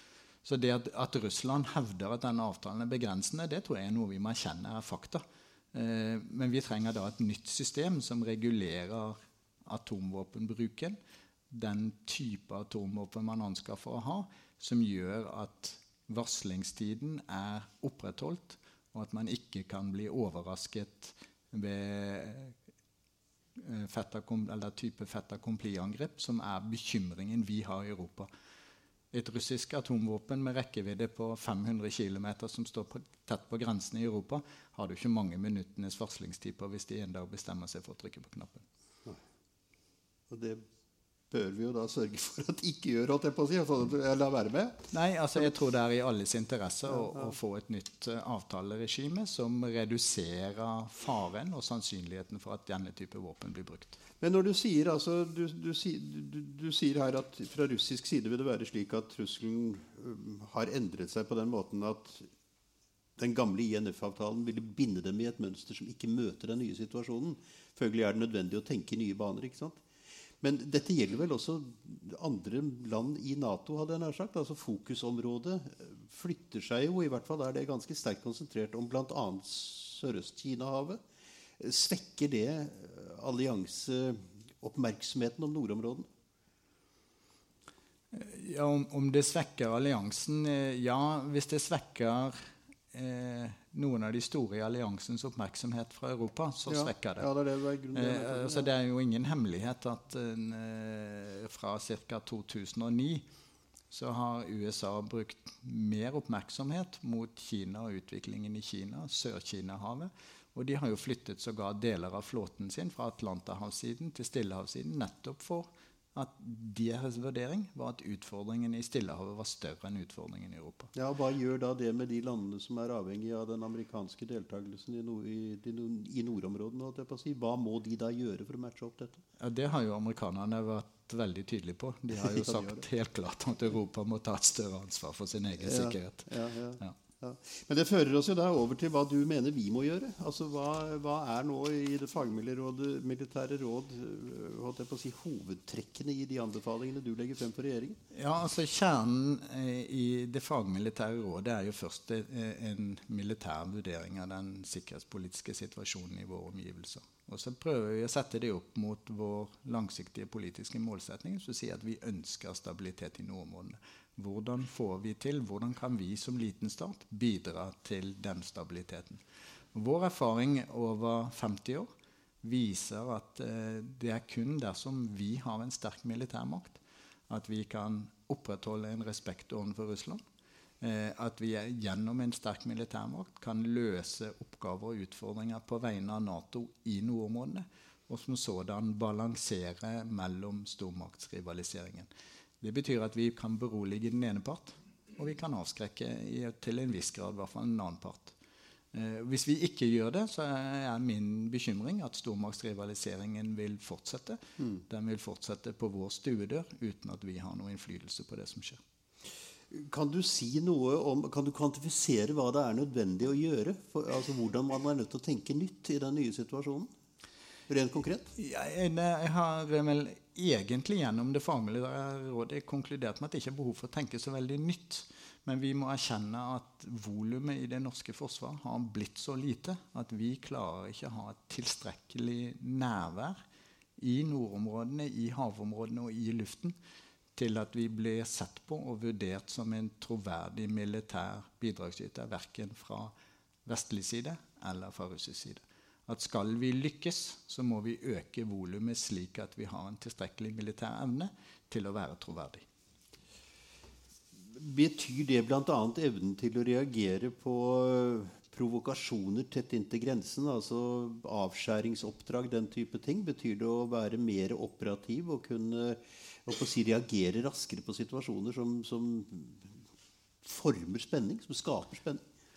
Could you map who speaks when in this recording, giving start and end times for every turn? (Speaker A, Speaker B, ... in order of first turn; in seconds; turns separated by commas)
Speaker A: 0.4-11.0, Speaker A: 11.5-22.6, Speaker A: 23.6-28.3, Speaker A: 29.1-38.7, Speaker B: 40.3-40.6, Speaker B: 41.3-44.9, Speaker A: 44.9-54.0, Speaker B: 47.0-47.3, Speaker B: 54.2-62.3, Speaker B: 63.2-69.8, Speaker B: 70.4-81.0, Speaker B: 81.6-86.1, Speaker A: 88.1-97.3, Speaker B: 96.7-98.7, Speaker A: 97.9-103.2, Speaker A: 103.9-120.9, Speaker B: 121.0-129.2, Speaker A: 129.4-137.0, Speaker B: 132.1-132.8, Speaker B: 135.6-148.0, Speaker A: 148.1-169.2, Speaker A: 169.7-171.9, Speaker A: 172.4-180.2, Speaker A: 180.8-192.1, Speaker A: 192.6-198.4, Speaker A: 198.9-208.8, Speaker B: 209.7-216.9, Speaker B: 217.7-218.3, Speaker A: 218.4-233.4, Speaker A: 234.0-236.8, Speaker A: 237.4-243.1, Speaker A: 243.7-252.7, Speaker B: 254.5-269.8, Speaker B: 270.4-272.2